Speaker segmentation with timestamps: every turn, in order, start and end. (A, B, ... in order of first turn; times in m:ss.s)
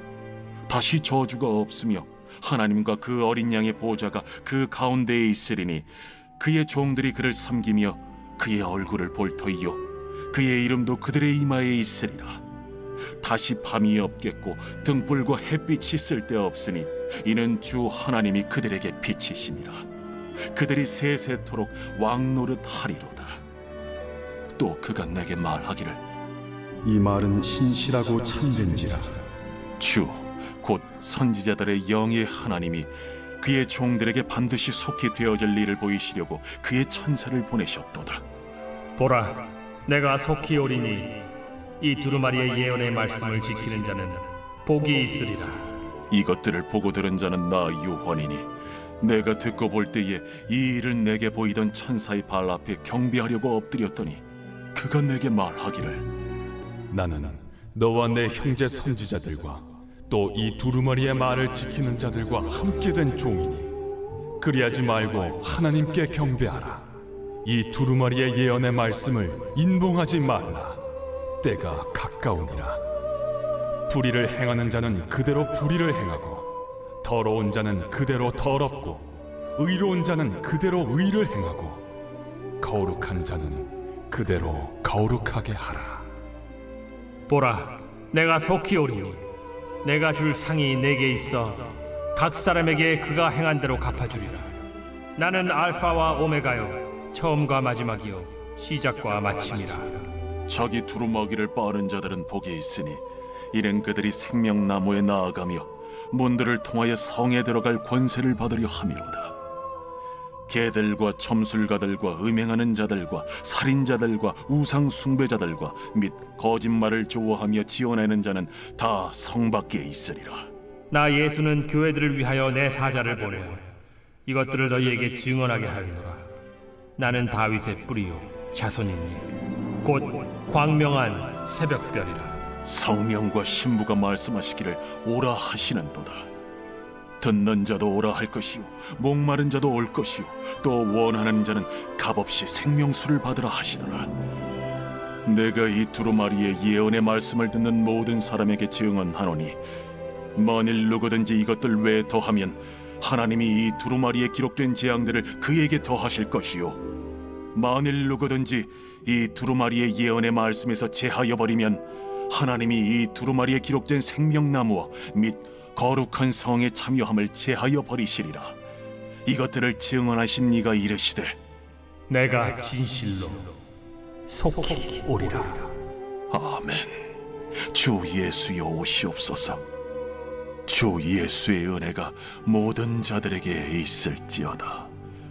0:00.7-0:12.4 A
0:13.2-0:19.9 A
0:20.5-0:23.4 A
0:24.6-0:26.0 A
0:26.8-0:29.1 B
0:29.8-0:38.2 A
0:39.0-0:41.2 C
0:41.8-0:45.6 C
0:46.1-0:48.5 A
0:49.0-0:54.2 A
0:54.8-0:56.1 A
0:56.9-1:03.7 B
1:04.4-1:06.9 B
1:07.4-1:10.8 B
1:11.4-1:12.8 B
1:13.9-1:16.5 B
1:17.0-1:21.8 B
1:22.6-1:26.0 B
1:27.3-1:29.2 C
1:29.8-1:34.5 C
1:35.2-1:40.0 C
1:40.5-1:49.4 A
1:50.5-2:00.5 A
2:00.9-2:03.6 C
2:04.3-2:06.2 C
2:07.0-2:09.3 C
2:09.8-2:12.4 C
2:12.6-2:16.3 A
2:17.2-2:24.1 A
2:25.2-2:29.6 A
2:30.4-2:36.8 A
2:37.5-2:48.6 A
2:49.3-2:51.4 A
2:52.1-2:53.5 C
2:54.3-2:55.7 C
2:56.3-2:56.9 A
2:57.7-2:59.6 A
3:00.7-3:04.9 A